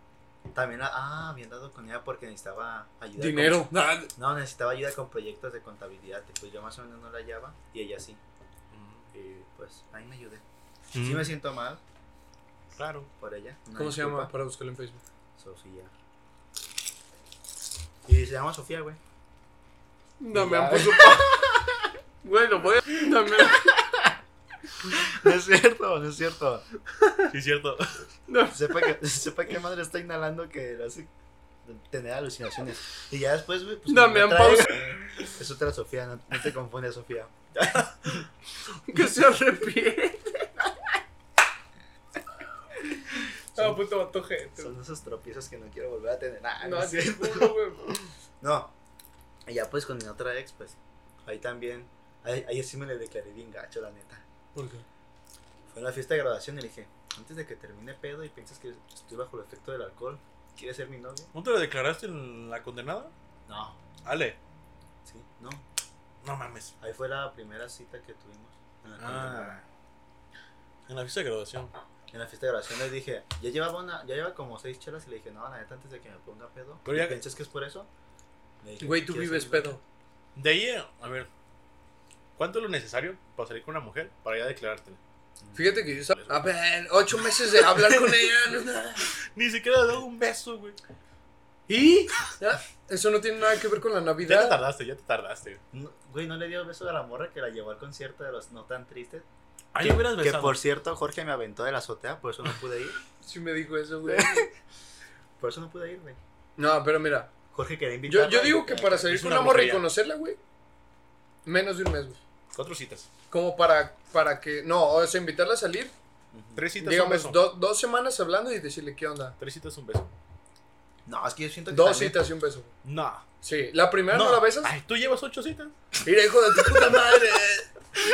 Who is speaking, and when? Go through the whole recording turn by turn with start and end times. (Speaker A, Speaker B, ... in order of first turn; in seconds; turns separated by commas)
Speaker A: 0.5-8.2, Speaker B: 3.2-4.1, Speaker C: 8.7-9.1, Speaker A: 9.1-10.4, Speaker C: 10.9-11.3, Speaker A: 10.9-11.8, Speaker C: 12.8-13.1, Speaker A: 13.2-14.3, Speaker B: 13.8-15.0, Speaker A: 15.3-15.9, Speaker A: 18.1-19.0, Speaker B: 20.2-21.5, Speaker A: 20.3-21.9, Speaker B: 22.2-23.8, Speaker A: 23.5-24.1, Speaker A: 24.9-26.6, Speaker B: 26.9-27.2, Speaker C: 27.3-28.1, Speaker B: 28.3-28.9, Speaker A: 28.5-31.1, Speaker A: 31.6-38.2, Speaker B: 33.9-34.9, Speaker B: 38.7-40.5, Speaker B: 42.9-44.7, Speaker A: 43.5-43.8, Speaker A: 44.6-48.7, Speaker B: 46.6-48.0, Speaker A: 49.5-54.2, Speaker B: 54.5-54.8, Speaker A: 55.7-61.3, Speaker C: 61.3-63.1, Speaker A: 63.5-63.8, Speaker C: 64.0-64.4, Speaker A: 65.0-65.6, Speaker C: 66.2-66.7, Speaker A: 66.8-69.6, Speaker C: 69.0-69.6, Speaker C: 70.9-71.7, Speaker A: 72.1-77.9, Speaker C: 76.8-77.2, Speaker A: 78.6-79.8, Speaker B: 78.8-79.8, Speaker C: 80.3-81.3, Speaker C: 82.4-85.0, Speaker A: 85.4-85.9, Speaker B: 85.5-89.1, Speaker C: 89.1-90.8, Speaker B: 91.7-94.6, Speaker C: 94.2-95.6, Speaker A: 95.7-99.2, Speaker C: 99.7-100.6, Speaker A: 99.8-103.0, Speaker B: 103.2-104.5, Speaker A: 104.0-104.5, Speaker A: 105.4-106.2, Speaker B: 106.6-107.3, Speaker A: 107.5-109.1, Speaker B: 108.1-110.4, Speaker C: 109.1-109.9, Speaker B: 111.4-112.2, Speaker C: 112.5-113.1, Speaker B: 113.3-115.9, Speaker A: 116.3-116.6, Speaker C: 116.5-117.5, Speaker B: 116.8-119.3, Speaker C: 119.4-120.1, Speaker A: 121.0-122.2, Speaker B: 121.7-122.7, Speaker C: 122.8-123.2, Speaker B: 123.4-124.7, Speaker C: 124.1-125.7, Speaker B: 126.0-127.7